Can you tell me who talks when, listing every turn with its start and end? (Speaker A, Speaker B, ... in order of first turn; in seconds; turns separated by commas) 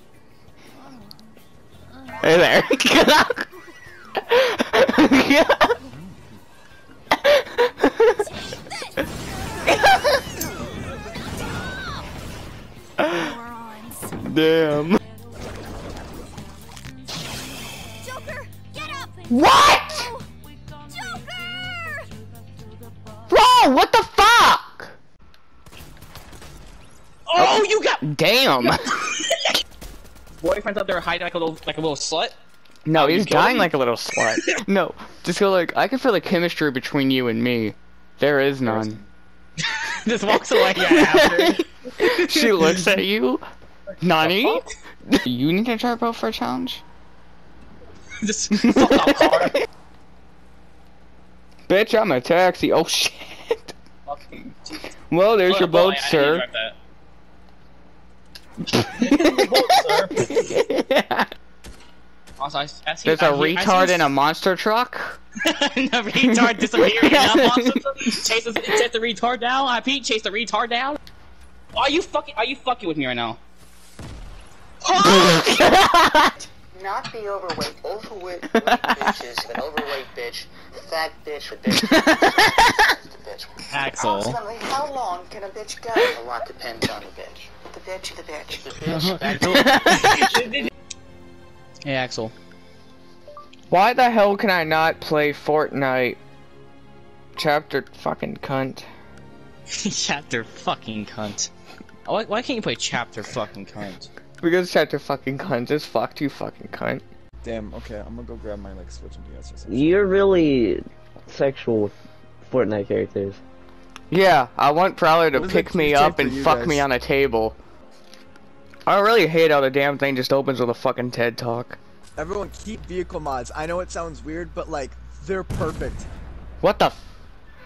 Speaker A: 2.2-3.5, Speaker A: 4.2-5.8, Speaker A: 7.2-8.2, Speaker B: 8.4-9.0, Speaker A: 9.7-10.2, Speaker B: 11.4-12.0, Speaker A: 13.0-13.4, Speaker B: 13.0-14.2, Speaker A: 14.2-15.0, Speaker B: 18.0-22.4, Speaker A: 19.3-20.1, Speaker A: 23.3-24.9, Speaker C: 27.3-28.0, Speaker A: 27.3-28.9, Speaker C: 29.0-29.5, Speaker C: 30.4-32.3, Speaker A: 32.9-39.0, Speaker C: 32.9-33.7, Speaker C: 39.7-42.9, Speaker A: 40.7-43.4, Speaker A: 44.0-46.8, Speaker C: 44.2-44.7, Speaker C: 48.2-49.6, Speaker A: 48.6-49.6, Speaker A: 51.7-53.7, Speaker C: 54.1-54.9, Speaker A: 55.1-56.5, Speaker C: 55.5-56.7, Speaker C: 58.7-60.3, Speaker A: 59.2-61.3, Speaker C: 62.4-64.1, Speaker A: 63.0-65.2, Speaker C: 65.4-71.0, Speaker A: 66.2-67.8, Speaker C: 71.8-73.4, Speaker A: 75.0-76.3, Speaker D: 76.9-82.5, Speaker A: 78.5-79.2, Speaker A: 81.7-82.7, Speaker D: 83.2-89.6, Speaker C: 83.7-84.4, Speaker C: 88.8-90.7, Speaker A: 89.5-90.2, Speaker C: 91.8-92.3, Speaker A: 93.7-96.2, Speaker A: 97.3-98.9, Speaker C: 99.7-101.5, Speaker C: 102.0-104.1, Speaker A: 104.4-107.0, Speaker E: 107.4-110.1, Speaker F: 109.7-111.9, Speaker F: 112.5-113.4, Speaker A: 114.1-117.6, Speaker E: 115.3-116.8, Speaker A: 118.8-121.8, Speaker E: 122.2-126.1, Speaker A: 126.6-127.0